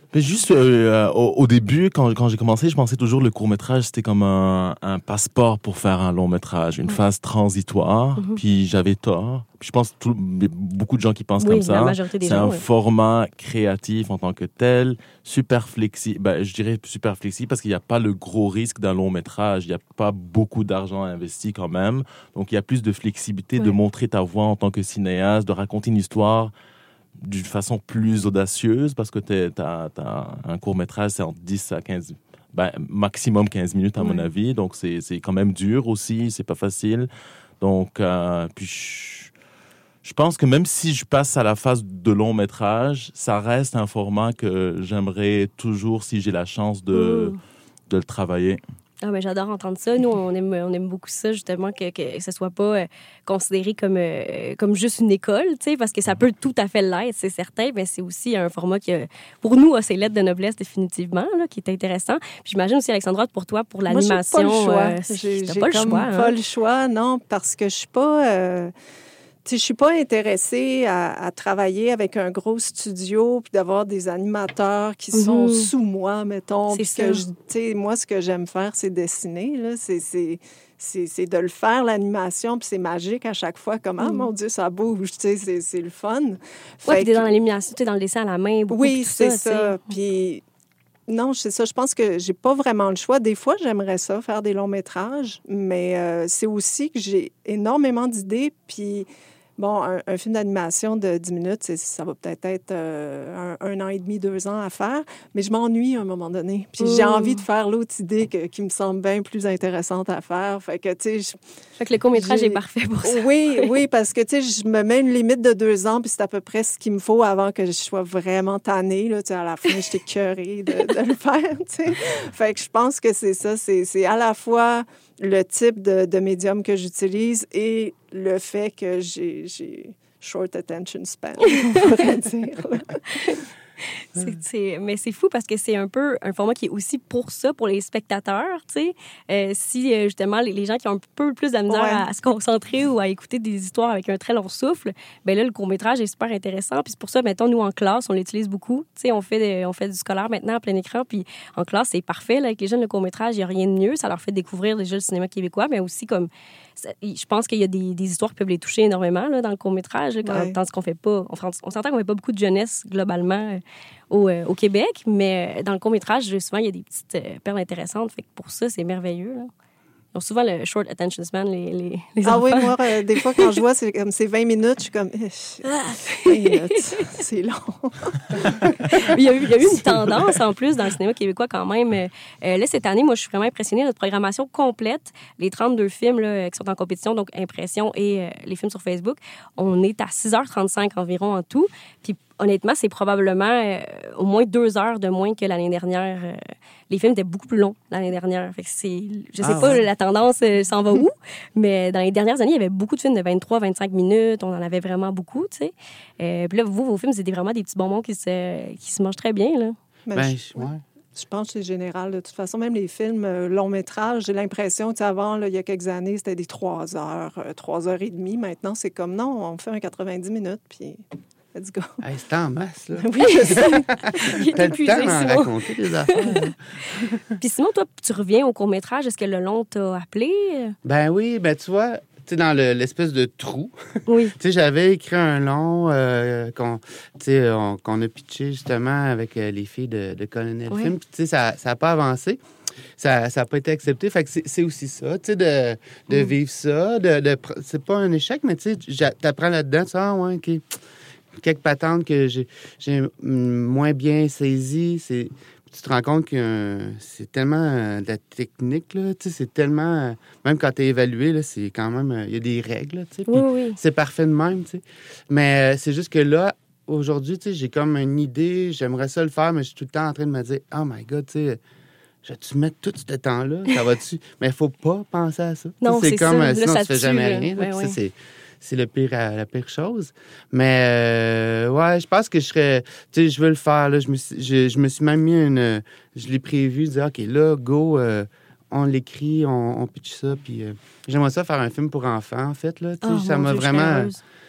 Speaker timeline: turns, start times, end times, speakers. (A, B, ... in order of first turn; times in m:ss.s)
0:00.1-0:26.5 A
0:11.4-0:12.6 B
0:27.2-0:37.1 A
0:34.0-0:34.3 B
0:37.6-0:39.3 A
0:40.0-0:47.4 A
0:46.9-0:47.4 B
0:47.9-0:48.6 A
0:49.0-1:06.3 B
1:03.9-1:08.7 C
1:09.4-1:27.3 C
1:15.1-1:15.7 B
1:16.7-1:17.3 B
1:24.0-1:24.3 B
1:26.9-1:29.8 B
1:28.7-1:30.4 C
1:31.1-1:51.4 C
1:46.8-1:47.4 B
1:51.8-1:53.7 B
1:52.2-2:13.0 C
2:11.5-2:11.8 B
2:13.1-2:13.4 B
2:13.9-2:49.5 B
2:21.7-2:22.0 C
2:40.2-2:40.6 C
2:50.1-2:53.6 B
2:52.2-2:59.1 C
2:55.6-2:57.1 B
2:58.9-3:29.8 B
3:19.4-3:19.8 D
3:30.1-3:42.0 C
3:30.1-3:30.8 D
3:42.0-3:47.4 D
3:43.0-3:45.4 C
3:43.2-3:45.5 B
3:46.1-3:46.5 B
3:47.4-3:50.8 B
3:50.8-4:02.4 D
3:54.1-3:54.3 B
4:03.0-4:10.6 D
4:11.4-4:31.6 D
4:23.3-4:23.8 B
4:32.2-4:54.1 D
4:35.8-4:38.0 B
4:53.0-4:54.2 B